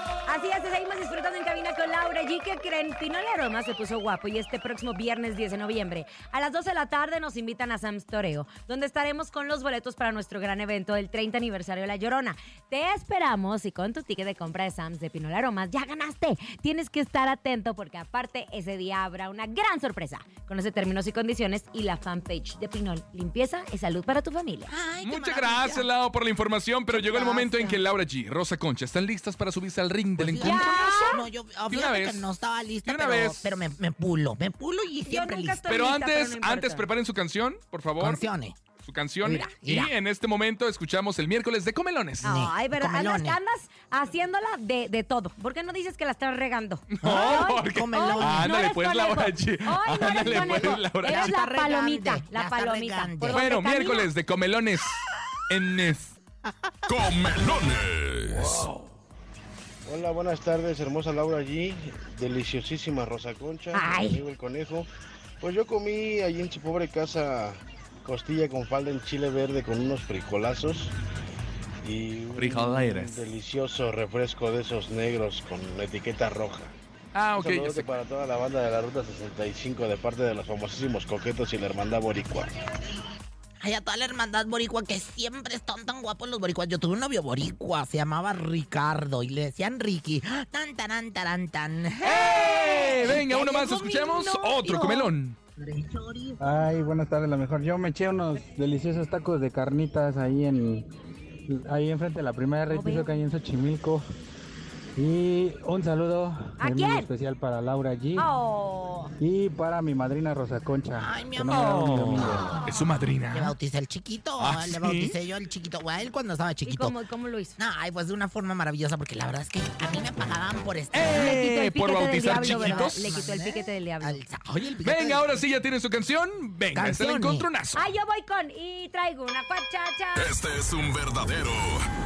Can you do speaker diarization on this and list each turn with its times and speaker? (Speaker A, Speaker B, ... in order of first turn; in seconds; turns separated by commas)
Speaker A: 0.3-24.7, Speaker B: 24.7-25.9, Speaker C: 25.0-31.1, Speaker B: 26.9-27.7, Speaker A: 27.2-27.7, Speaker B: 30.2-35.6, Speaker A: 30.4-31.2, Speaker C: 31.7-32.3, Speaker C: 32.8-33.5, Speaker A: 35.1-36.8, Speaker C: 35.7-38.2, Speaker B: 38.0-38.6, Speaker C: 38.8-42.3, Speaker B: 39.2-39.9, Speaker B: 42.2-43.4, Speaker A: 42.2-54.1, Speaker C: 46.9-51.3, Speaker B: 47.0-48.6, Speaker B: 50.1-53.5, Speaker C: 53.3-56.2, Speaker D: 56.9-58.6, Speaker E: 59.9-64.9, Speaker A: 63.7-64.2, Speaker E: 65.4-70.9, Speaker E: 71.8-76.7, Speaker C: 72.3-73.1, Speaker C: 77.1-77.9, Speaker E: 77.4-82.5, Speaker B: 83.6-95.1, Speaker C: 92.0-95.4, Speaker B: 95.6-96.4, Speaker F: 96.4-100.9, Speaker F: 101.5-104.0, Speaker A: 102.7-103.1, Speaker F: 105.0-108.3, Speaker A: 106.6-107.1, Speaker A: 108.2-109.1, Speaker F: 109.2-112.6, Speaker B: 111.0-112.7, Speaker C: 111.5-113.5, Speaker B: 113.3-117.0, Speaker C: 114.4-115.1, Speaker A: 116.7-117.6, Speaker B: 117.6-121.4, Speaker C: 120.9-123.2, Speaker A: 121.1-124.2, Speaker B: 122.2-125.4, Speaker C: 124.8-127.8, Speaker B: 126.7-127.5, Speaker A: 127.8-130.3, Speaker D: 130.2-131.9